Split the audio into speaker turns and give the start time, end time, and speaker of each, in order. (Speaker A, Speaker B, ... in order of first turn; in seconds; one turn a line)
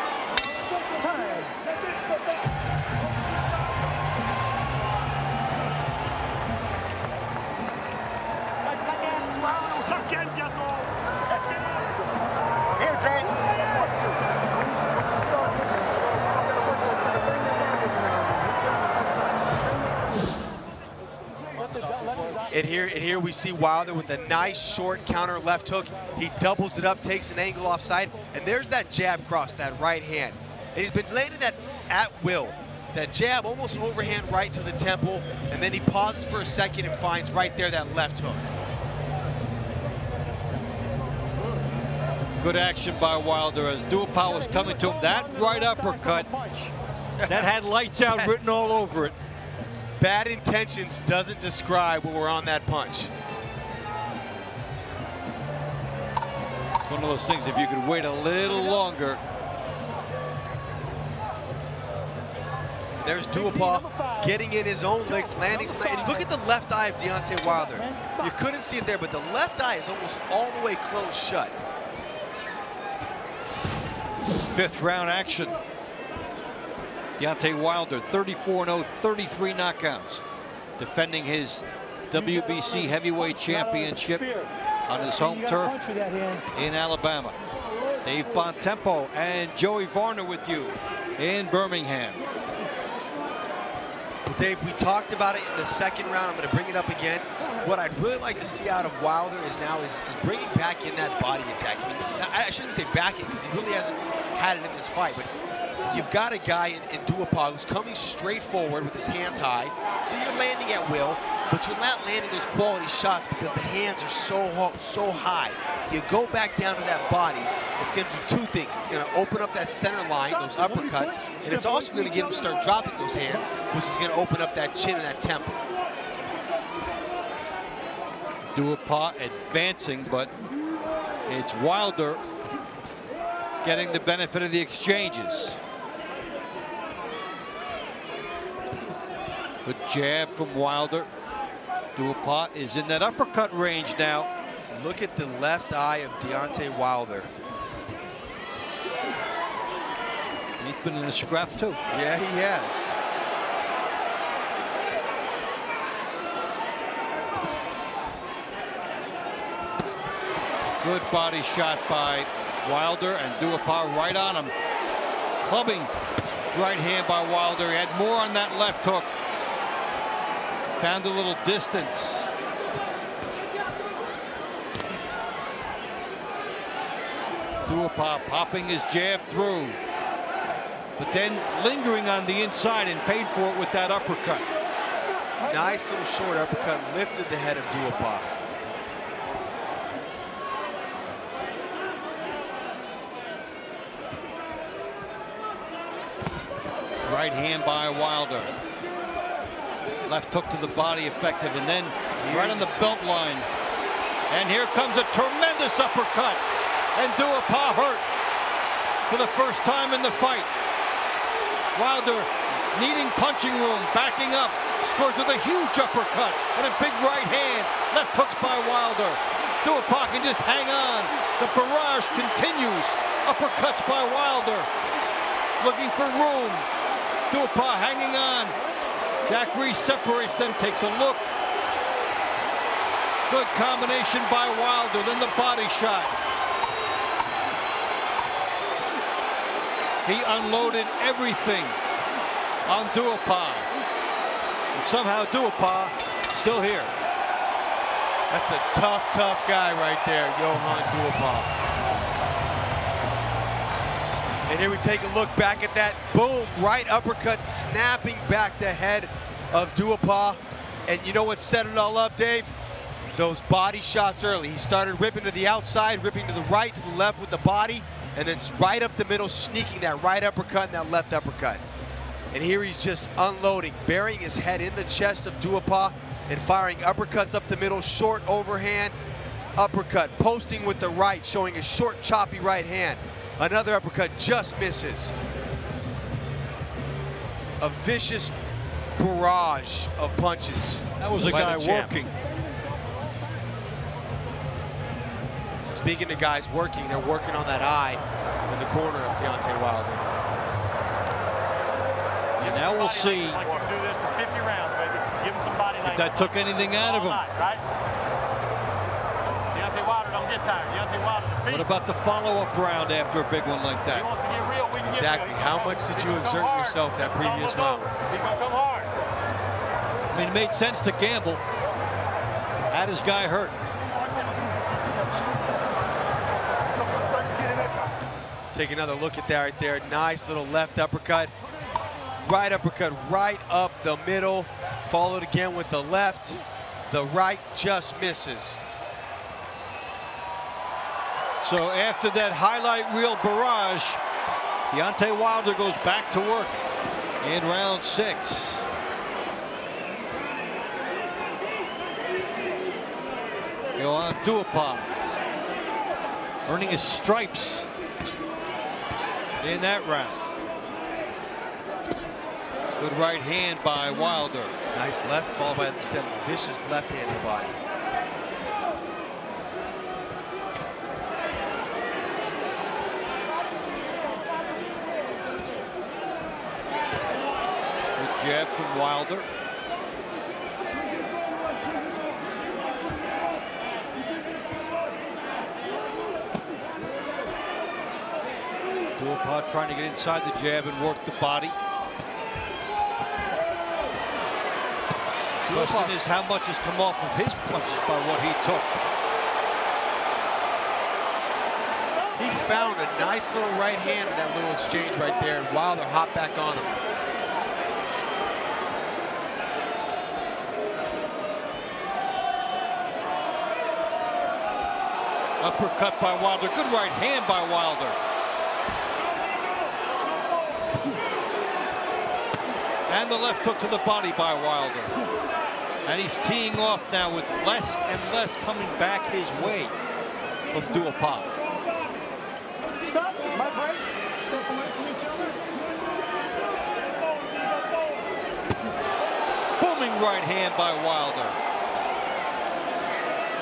Speaker A: 0.9-1.6
Speaker B: 8.6-12.0
Speaker B: 12.7-14.2
Speaker B: 15.0-15.9
Speaker B: 16.5-18.6
Speaker A: 21.5-22.6
Speaker C: 22.5-38.5
Speaker D: 42.4-46.3
Speaker A: 44.2-46.7
Speaker C: 47.2-47.5
Speaker D: 47.2-49.1
Speaker C: 48.0-48.3
Speaker C: 50.0-53.1
Speaker D: 56.9-59.2
Speaker C: 63.0-71.6
Speaker A: 63.3-64.4
Speaker A: 65.0-66.3
Speaker A: 67.4-68.4
Speaker D: 74.5-75.6
Speaker D: 77.2-80.2
Speaker D: 80.8-84.2
Speaker A: 82.1-84.5
Speaker D: 84.9-85.8
Speaker A: 85.0-86.5
Speaker D: 86.5-87.4
Speaker D: 88.0-92.2
Speaker C: 94.2-105.3
Speaker C: 105.8-125.6
Speaker A: 120.2-123.7
Speaker D: 128.5-130.3
Speaker D: 131.3-132.2
Speaker D: 133.6-135.6
Speaker D: 139.6-141.1
Speaker D: 142.0-144.3
Speaker C: 144.7-147.3
Speaker D: 150.6-151.8
Speaker C: 151.9-152.9
Speaker D: 160.8-164.5
Speaker D: 165.4-165.9
Speaker D: 166.5-169.1
Speaker D: 170.8-172.3
Speaker D: 177.7-179.8
Speaker D: 181.0-184.4
Speaker A: 184.9-186.7
Speaker C: 185.4-188.3
Speaker D: 197.0-198.6
Speaker D: 200.1-203.5
Speaker C: 202.2-203.0
Speaker D: 204.3-206.4
Speaker D: 206.9-208.0
Speaker D: 209.1-210.5
Speaker D: 211.8-224.7
Speaker D: 225.6-226.7
Speaker D: 227.3-228.6
Speaker D: 229.2-231.3
Speaker D: 233.3-236.1
Speaker D: 240.0-241.8
Speaker D: 242.7-243.7
Speaker D: 244.7-246.9
Speaker C: 248.3-251.5
Speaker C: 254.5-262.6
Speaker C: 263.1-271.6
Speaker C: 272.3-278.9
Speaker C: 279.6-285.1
Speaker C: 287.6-288.3
Speaker C: 289.0-292.1
Speaker D: 291.0-292.1
Speaker A: 292.0-293.6
Speaker C: 295.7-300.0
Speaker D: 302.4-303.4
Speaker B: 302.4-307.6
Speaker D: 305.9-307.2
Speaker B: 309.5-311.7
Speaker D: 311.5-314.1
Speaker B: 313.9-318.9
Speaker C: 314.8-317.9
Speaker D: 320.1-321.4
Speaker D: 322.7-323.6
Speaker C: 328.5-331.3
Speaker C: 332.2-338.6
Speaker D: 341.4-344.0
Speaker D: 344.7-346.6
Speaker D: 347.2-348.6
Speaker D: 353.8-354.9
Speaker D: 356.5-357.7
Speaker D: 359.4-360.2
Speaker D: 362.8-364.5
Speaker C: 364.7-367.6
Speaker D: 378.0-379.3
Speaker D: 389.0-391.6
Speaker C: 395.4-396.0
Speaker D: 395.5-398.8
Speaker A: 401.8-404.0
Speaker C: 402.1-406.8
Speaker D: 415.4-418.0
Speaker D: 422.9-424.9
Speaker D: 425.8-429.7
Speaker D: 430.5-431.3
Speaker A: 432.8-435.5
Speaker D: 439.6-441.4